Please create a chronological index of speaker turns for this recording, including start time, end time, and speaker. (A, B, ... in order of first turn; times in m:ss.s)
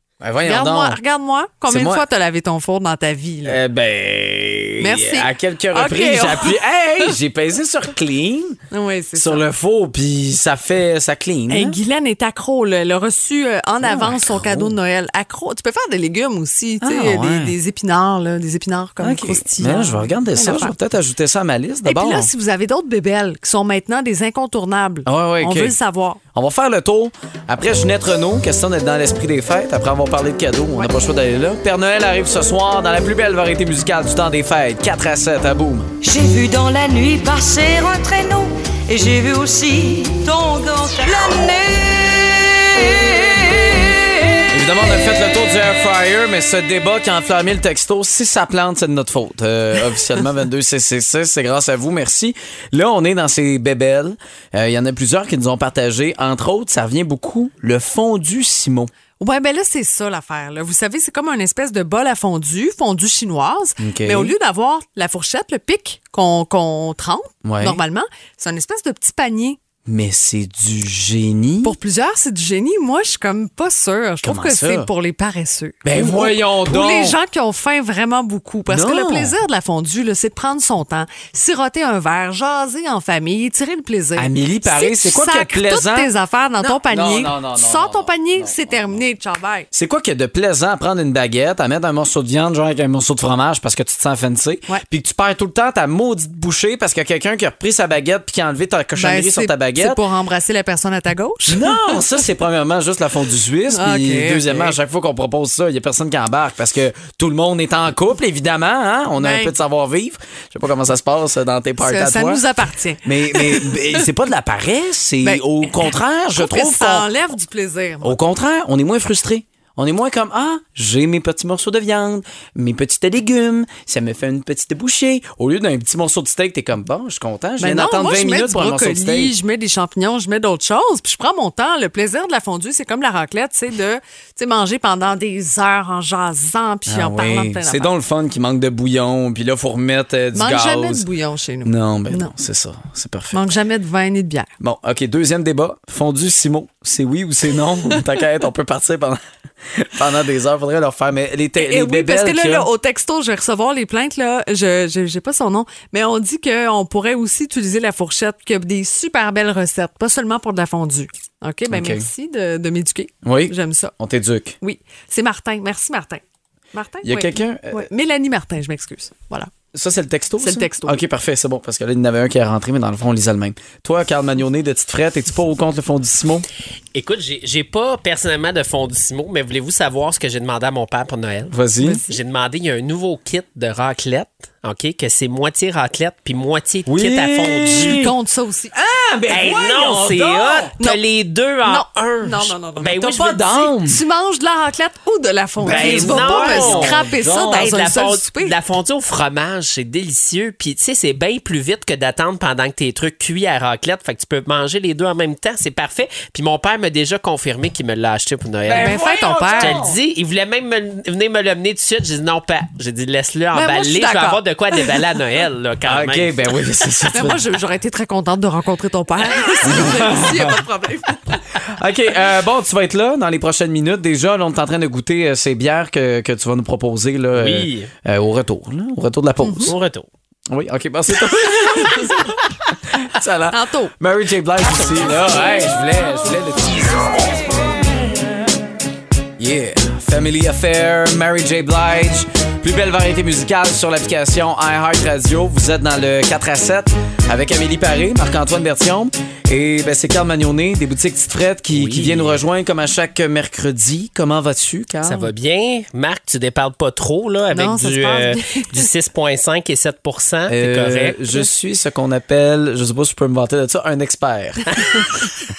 0:00.2-0:01.0 A
0:00.4-0:03.6 B
0:01.7-0:02.0 A
0:03.4-0:08.6 A
0:04.8-0:06.6 B
0:08.7-0:09.4 B
0:09.2-0:11.8 A
0:11.5-0:20.7 B
0:13.8-0:14.8 A
0:16.8-0:17.6 A
0:19.0-0:22.3 A
0:21.8-0:26.2 B
0:25.0-0:25.8 A
0:26.3-0:35.9 A
0:36.0-0:44.1 C
0:44.5-0:58.9 A
0:59.2-1:09.6 B
1:03.8-1:04.3 A
1:07.4-1:07.8 A
1:09.8-1:11.7 A
1:11.6-1:29.7 B
1:14.2-1:14.9 A
1:15.8-1:17.2 A
1:18.7-1:19.4 A
1:24.2-1:29.0 A
1:29.7-1:40.0 A
1:39.0-1:42.0 B
1:41.5-1:52.4 A
1:43.7-1:44.8 B
1:49.2-1:49.5 B
1:51.8-1:54.0 B
1:53.0-1:57.1 A
1:55.2-1:58.2 B
1:58.0-2:09.3 A
2:07.6-2:17.9 B
2:16.9-2:21.0 A
2:20.3-2:22.3 B
2:21.6-2:23.4 A
2:23.3-2:24.5 B
2:24.6-2:32.7 A
2:31.6-2:43.9 B
2:41.7-2:42.1 A
2:43.2-2:44.6 A
2:44.6-2:46.2 B
2:46.7-2:49.5 B
2:47.0-2:47.9 A
2:49.7-2:56.4 A
2:50.4-2:51.0 B
2:56.9-3:01.5 D
3:01.5-3:02.0 A
3:02.0-3:08.0 D
3:06.8-3:08.1 A
3:07.8-3:08.7 B
3:08.7-3:10.7 A
3:09.3-3:13.7 D
3:11.6-3:12.9 B
3:12.8-3:14.0 A
3:13.8-3:18.5 B
3:15.6-3:17.7 A
3:15.6-3:17.0 D
3:17.5-3:29.0 D
3:28.6-3:30.0 A
3:28.7-3:29.8 B
3:29.6-3:36.3 D
3:33.5-3:34.9 B
3:35.8-3:37.4 A
3:37.1-3:41.5 B
3:39.6-3:40.6 A
3:41.6-3:49.7 A
3:47.3-3:47.9 D
3:49.4-3:49.7 B
3:49.6-3:50.1 D
3:50.5-3:52.4 A
3:51.6-3:52.1 B
3:52.9-3:57.7 A
3:53.5-3:53.9 B
3:59.4-4:15.3 A
4:11.7-4:12.4 D
4:15.0-4:21.2 D
4:17.5-4:18.8 B
4:20.5-4:25.0 A